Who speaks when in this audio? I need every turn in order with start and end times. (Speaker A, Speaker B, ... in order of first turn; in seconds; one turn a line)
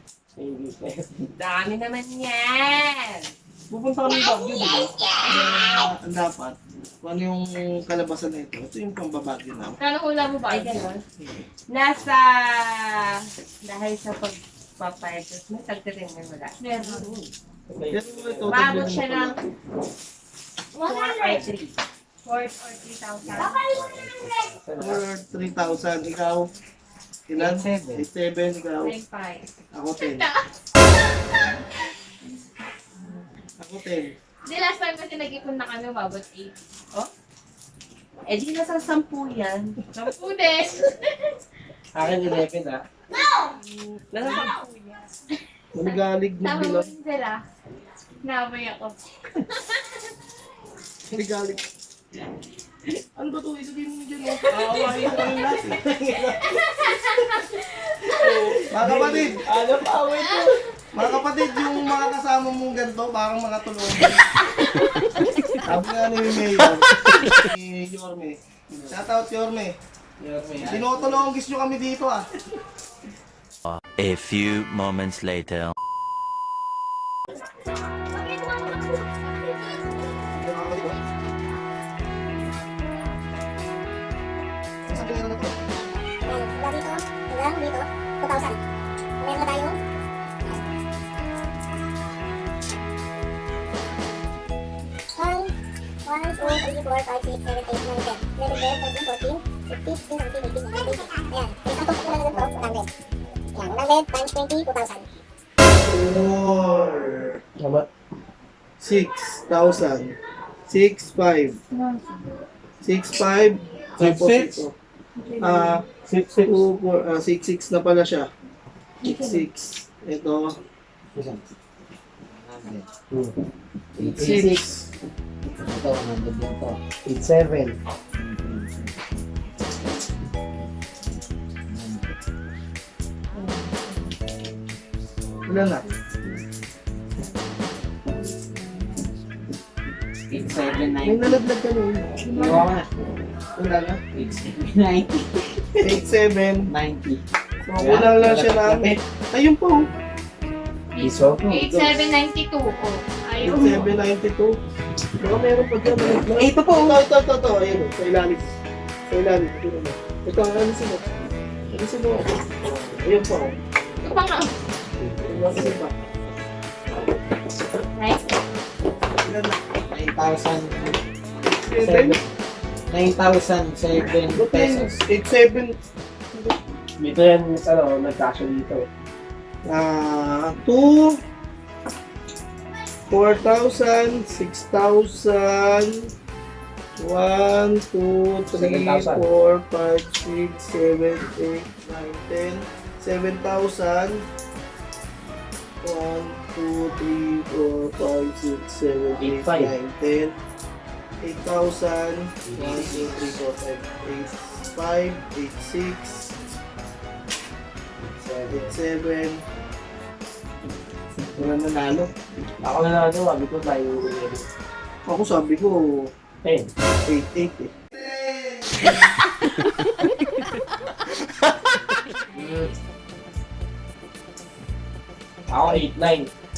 Speaker A: 0.4-1.3
Speaker B: 1.4-3.3
Speaker C: 3.7-9.8
Speaker D: 9.8-10.8
Speaker B: 10.5-11.0
Speaker C: 11.2-11.4
Speaker B: 11.7-17.3
Speaker D: 16.6-17.1
Speaker E: 17.7-19.0
Speaker C: 17.9-19.4
Speaker D: 18.5-19.4
Speaker B: 20.8-21.8
Speaker D: 20.8-21.4
Speaker D: 22.2-23.6
Speaker B: 23.4-23.8
Speaker A: 23.7-25.0
Speaker C: 24.8-26.5
Speaker C: 27.3-29.0
Speaker A: 27.4-28.1
Speaker D: 28.8-29.5
Speaker C: 29.7-30.3
Speaker C: 33.6-34.1
Speaker D: 34.5-36.6
Speaker B: 38.3-40.1
Speaker D: 40.0-41.3
Speaker A: 41.9-42.8
Speaker B: 44.1-45.1
Speaker C: 44.2-44.4
Speaker C: 45.8-46.9
Speaker D: 45.8-47.4
Speaker D: 48.2-49.7
Speaker C: 51.1-51.6
Speaker C: 53.2-55.8
Speaker E: 54.5-55.8
Speaker A: 54.9-57.6
Speaker D: 56.9-57.4
Speaker A: 58.2-58.8
Speaker E: 58.2-60.4
Speaker C: 58.7-59.4
Speaker A: 59.5-60.5
Speaker C: 60.9-64.2
Speaker A: 65.4-65.7
Speaker C: 65.6-69.8
Speaker A: 66.9-67.4
Speaker A: 68.7-69.0
Speaker A: 70.2-71.3
Speaker C: 70.6-72.3
Speaker F: 73.7-75.8
Speaker C: 80.4-81.0
Speaker C: 84.9-85.5
Speaker G: 86.3-88.6
Speaker G: 89.2-89.8
Speaker G: 95.2-95.5
Speaker G: 96.1-102.9
Speaker G: 103.5-105.1
Speaker C: 105.8-107.3
Speaker E: 107.6-107.9
Speaker C: 108.8-110.2
Speaker C: 110.7-111.6
Speaker D: 111.7-112.2
Speaker C: 112.8-114.7
Speaker E: 114.0-114.6
Speaker D: 115.2-115.7
Speaker C: 115.4-115.8
Speaker E: 116.0-116.7
Speaker C: 116.4-118.3
Speaker C: 119.0-120.6
Speaker A: 121.2-121.5
Speaker A: 122.3-123.2
Speaker A: 124.0-124.9
Speaker C: 124.0-124.7
Speaker A: 125.6-129.1
Speaker A: 131.7-132.1
Speaker D: 133.4-134.1
Speaker C: 135.5-135.8
Speaker A: 140.3-141.5
Speaker C: 141.0-142.2
Speaker D: 142.2-142.7
Speaker A: 142.3-142.9
Speaker C: 143.6-144.0
Speaker A: 144.1-146.0
Speaker C: 145.8-146.7
Speaker A: 146.7-147.2
Speaker C: 147.7-149.9
Speaker A: 147.8-149.0
Speaker D: 150.9-153.8
Speaker A: 151.0-151.8
Speaker C: 153.4-154.6
Speaker C: 155.2-158.5
Speaker A: 155.8-157.0
Speaker C: 159.1-161.1
Speaker C: 161.7-163.6
Speaker D: 164.0-164.5
Speaker C: 165.2-165.9
Speaker D: 167.9-168.3
Speaker C: 169.2-169.6
Speaker A: 169.9-171.0
Speaker C: 171.5-172.2
Speaker A: 171.8-172.2
Speaker A: 172.9-175.0
Speaker C: 174.3-175.8
Speaker E: 177.0-178.9
Speaker C: 179.7-181.2
Speaker C: 183.1-186.1
Speaker C: 187.0-194.2
Speaker E: 188.6-189.1
Speaker A: 188.6-189.3
Speaker C: 195.8-200.3
Speaker A: 199.2-199.7
Speaker E: 199.2-199.6
Speaker C: 201.2-206.3
Speaker A: 202.4-203.2
Speaker A: 208.1-208.8
Speaker C: 208.5-209.4
Speaker C: 211.4-212.1
Speaker E: 212.6-214.4
Speaker C: 215.1-216.1
Speaker E: 216.4-216.7
Speaker C: 217.1-219.1
Speaker A: 222.3-222.7
Speaker E: 225.5-226.3